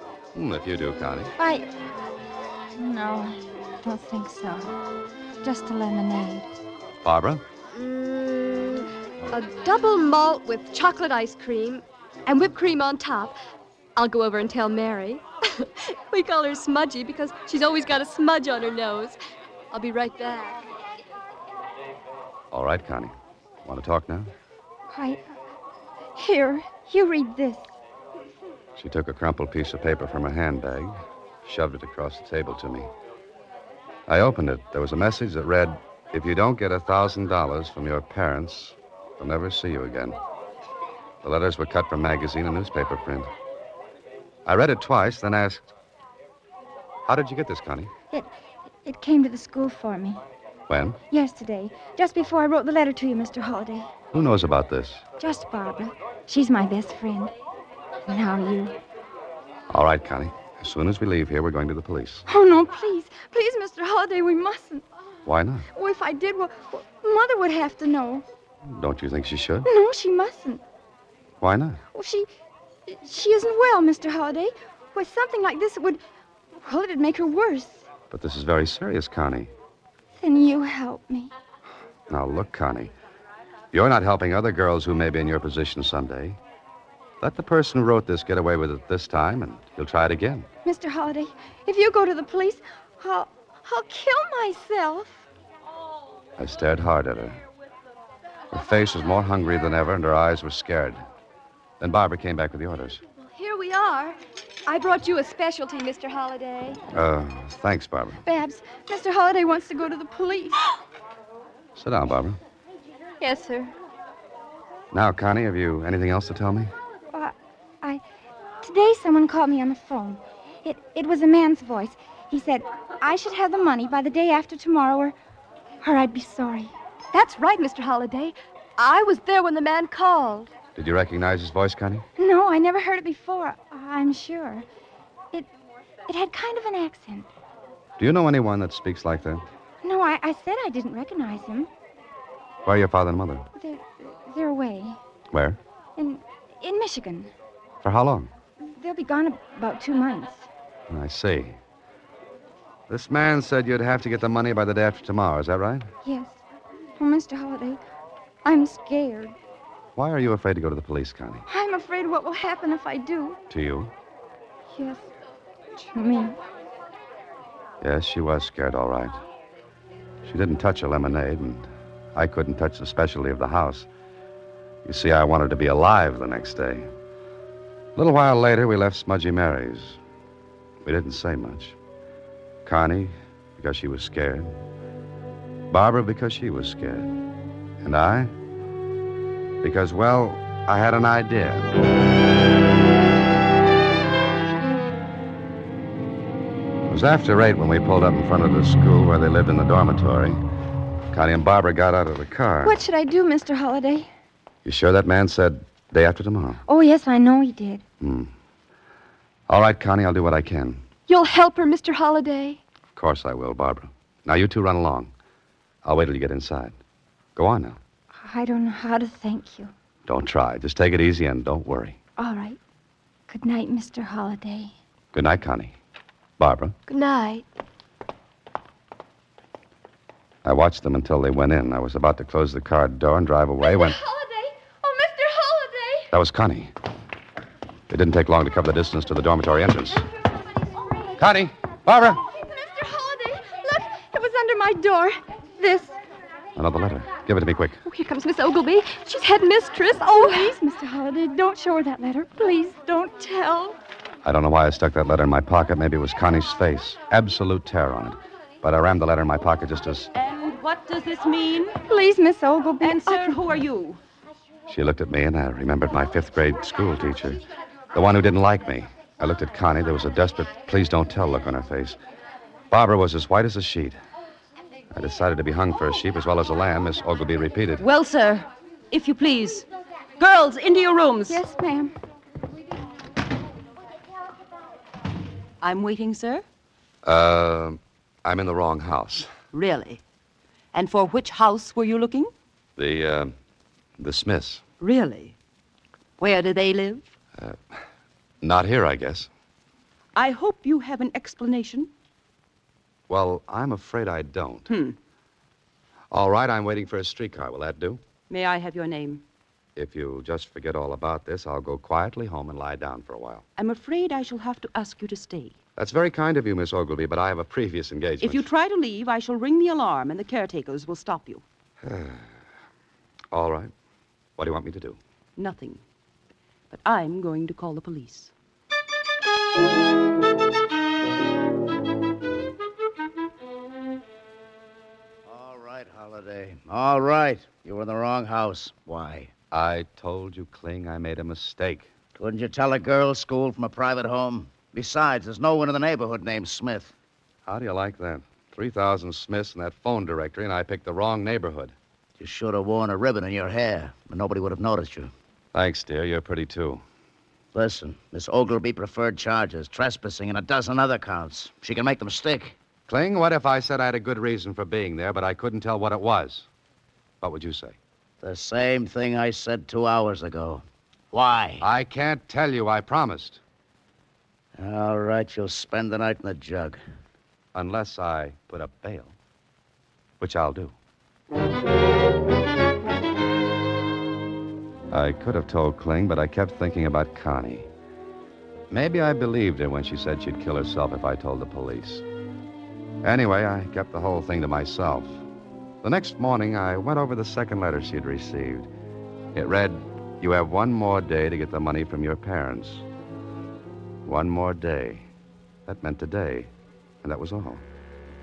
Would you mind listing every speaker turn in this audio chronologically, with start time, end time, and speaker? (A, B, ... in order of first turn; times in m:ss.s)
0:00.3-0:01.3 A
0:01.4-0:01.7 B
0:02.8-0:04.7 B
0:05.4-0:06.5 B
0:07.0-0:07.4 A
0:07.7-0:13.4 C
0:14.0-0:19.2 C
0:19.7-0:20.6 C
0:22.5-0:23.1 A
0:23.6-0:24.3 A
0:24.9-0:25.2 B
0:26.1-0:27.7 B
0:28.8-0:32.9 A
0:34.1-0:40.2 A
0:41.2-0:43.3 A
0:44.4-0:45.7 A
0:47.1-0:47.9 A
0:48.8-0:50.2 B
0:50.7-0:51.0 A
0:51.1-0:53.9 B
0:54.1-0:55.0 A
0:55.2-0:57.3 B
0:58.1-0:58.7 B
0:59.7-1:02.2 A
1:02.3-1:04.8 B
1:05.2-1:05.6 A
1:05.7-1:08.2 B
1:08.7-1:09.7 A
1:09.6-1:10.6 B
1:11.4-1:11.8 A
1:11.9-1:12.3 B
1:12.9-1:16.0 B
1:16.6-1:17.8 B
1:18.1-1:19.5 A
1:20.2-1:21.3 B
1:22.1-1:22.9 A
1:23.7-1:26.4 A
1:27.2-1:30.5 A
1:30.6-1:35.2 B
1:36.4-1:37.4 A
1:38.5-1:41.0 A
1:41.8-1:43.0 A
1:43.2-1:46.8 C
1:46.9-1:48.2 A
1:48.2-1:50.6 B
1:51.8-1:52.4 A
1:53.2-1:53.7 C
1:54.9-1:56.7 A
1:57.1-1:58.0 B
1:58.6-2:05.1 B
2:05.8-2:06.7 B
2:07.1-2:10.5 C
2:10.8-2:12.0 A
2:12.2-2:14.6 B
2:16.1-2:17.3 B
2:18.0-2:19.4 A
2:19.8-2:21.7 B
2:22.6-2:23.4 A
2:23.6-2:25.0 B
2:25.3-2:25.6 A
2:26.0-2:27.3 B
2:27.8-2:28.3 A
2:28.8-2:30.5 B
2:30.9-2:31.6 A
2:32.9-2:35.9 A
2:36.0-2:36.4 B
2:37.0-2:37.8 B
2:38.4-2:39.4 B
2:40.0-2:41.4 A
2:41.5-2:43.4 B
2:43.5-2:43.9 A
2:44.7-2:45.0 B
2:45.8-2:46.4 B
2:47.8-2:49.2 A
2:50.2-2:53.9 A
2:54.8-2:56.9 A
2:58.0-3:00.0 A
3:00.8-3:01.8 A
3:02.6-3:04.5 A
3:05.7-3:07.1 A
3:07.8-3:08.3 A
3:09.6-3:11.7 A
3:16.9-3:20.4 A
3:21.1-3:22.8 A
3:22.6-3:24.1 B
3:24.6-3:26.6 A
3:26.7-3:27.8 B
3:28.0-3:28.3 A
3:29.5-3:30.8 A
3:31.1-3:32.6 C
3:33.0-3:35.1 A
3:35.8-3:36.8 A
3:37.4-3:37.8 A
3:38.1-3:39.7 B
3:40.1-3:42.0 A
3:42.2-3:42.6 B
3:43.3-3:44.7 B
3:45.1-3:45.7 A
3:46.4-3:46.8 A
3:46.9-3:47.4 C
3:50.4-3:54.0 A
3:53.6-3:56.1 C
3:56.1-3:56.7 A
3:57.9-4:00.0 A
4:01.2-4:02.2 A
4:02.4-4:03.7 C
4:03.7-4:06.0 B
4:06.6-4:07.8 A
4:07.8-4:10.5 C
4:10.1-4:13.8 B
4:14.2-4:20.1 A
4:20.1-4:21.8 D
4:21.9-4:23.4 B
4:22.8-4:24.0 D
4:24.7-4:27.4 A
4:27.9-4:32.0 A
4:32.7-4:34.0 A
4:34.9-4:37.8 A
4:37.8-4:39.7 D
4:40.2-4:41.4 D
4:41.3-4:41.9 B
4:45.6-4:46.4 D
4:47.0-4:49.3 A
4:49.5-4:50.0 D
4:50.7-4:52.3 D
4:52.8-4:53.3 A
4:54.0-4:54.6 A
4:54.8-4:55.3 D
4:56.2-4:57.0 D
4:58.4-4:59.3 A
5:00.1-5:01.9 D
5:03.1-5:04.7 A
5:04.7-5:05.0 D
5:06.1-5:08.0 A
5:08.3-5:09.2 D
5:09.8-5:13.4 A
5:13.6-5:15.6 D
5:15.8-5:18.5 A
5:18.2-5:21.4 D
5:21.8-5:22.3 A
5:23.3-5:23.7 A
5:24.4-5:25.0 A
5:25.4-5:25.8 D
5:26.7-5:28.3 D
5:35.2-5:39.3 E
5:39.5-5:41.9 A
5:42.1-5:46.9 E
5:47.5-5:51.7 A
5:52.2-5:55.1 E
5:55.5-5:56.8 A
5:57.5-6:02.6 E
6:02.9-6:06.5 A
6:07.2-6:07.8 A
6:08.2-6:11.6 E
6:11.6-6:13.4 A
6:14.6-6:16.8 E
6:17.5-6:19.1 A
6:20.2-6:20.7 A
6:24.9-6:27.7 A
6:28.7-6:32.0 A
6:33.0-6:35.2 A
6:35.8-6:38.7 A
6:39.3-6:42.8 A
6:44.0-6:45.0 A
6:45.6-6:46.5 A
6:47.0-6:47.6 A